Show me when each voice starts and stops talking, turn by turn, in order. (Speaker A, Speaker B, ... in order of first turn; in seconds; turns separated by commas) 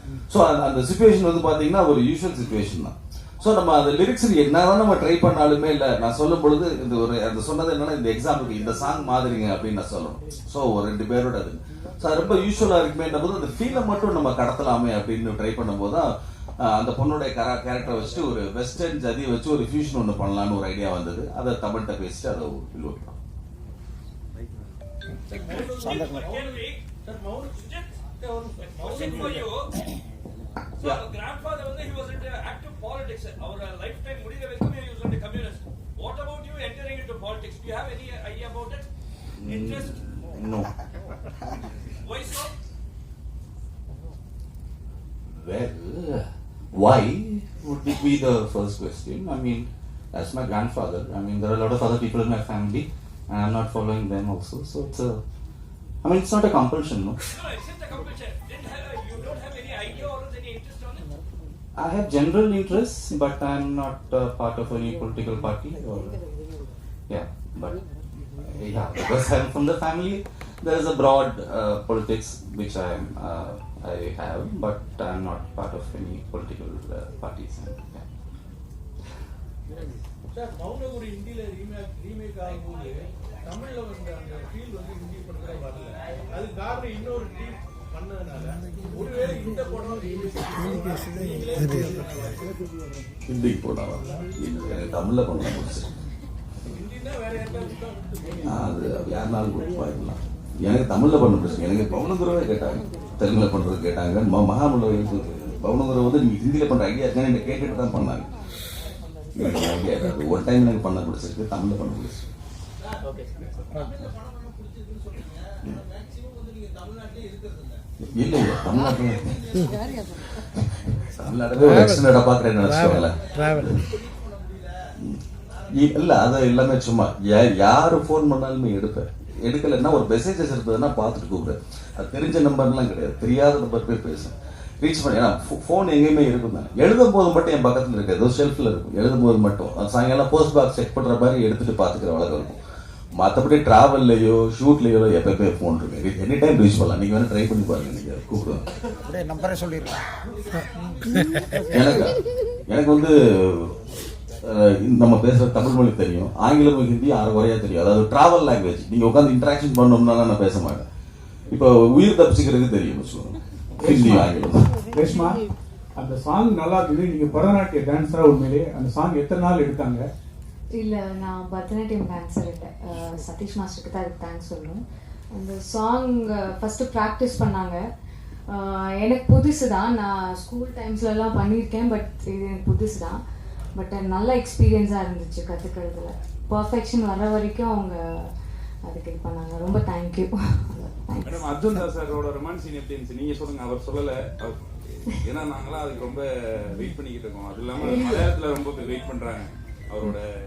Speaker A: 0.3-16.1, Speaker A: 16.6-23.1, Speaker B: 25.3-29.5, Speaker C: 25.7-26.7, Speaker C: 28.8-29.4, Speaker C: 30.8-38.8, Speaker D: 39.4-40.7, Speaker C: 39.5-39.9, Speaker C: 42.2-42.4, Speaker D: 45.3-55.2, Speaker D: 56.0-57.2, Speaker C: 57.5-61.0, Speaker D: 61.8-66.2, Speaker D: 67.1-67.8, Speaker D: 68.4-78.0, Speaker B: 80.3-92.5, Speaker A: 93.3-95.9, Speaker B: 96.7-98.7, Speaker A: 98.5-108.3, Speaker A: 109.3-112.3, Speaker A: 118.1-119.6, Speaker A: 120.4-123.8, Speaker A: 125.8-142.6, Speaker A: 143.2-148.6, Speaker A: 151.7-152.2, Speaker A: 152.7-153.7, Speaker A: 154.4-160.8, Speaker A: 161.5-164.7, Speaker E: 163.8-164.3, Speaker E: 164.9-165.4, Speaker E: 166.0-170.1, Speaker F: 170.7-174.8, Speaker F: 175.3-177.8, Speaker F: 178.5-183.2, Speaker F: 183.8-188.3, Speaker F: 188.8-191.8, Speaker G: 191.2-200.2, Speaker F: 197.8-198.3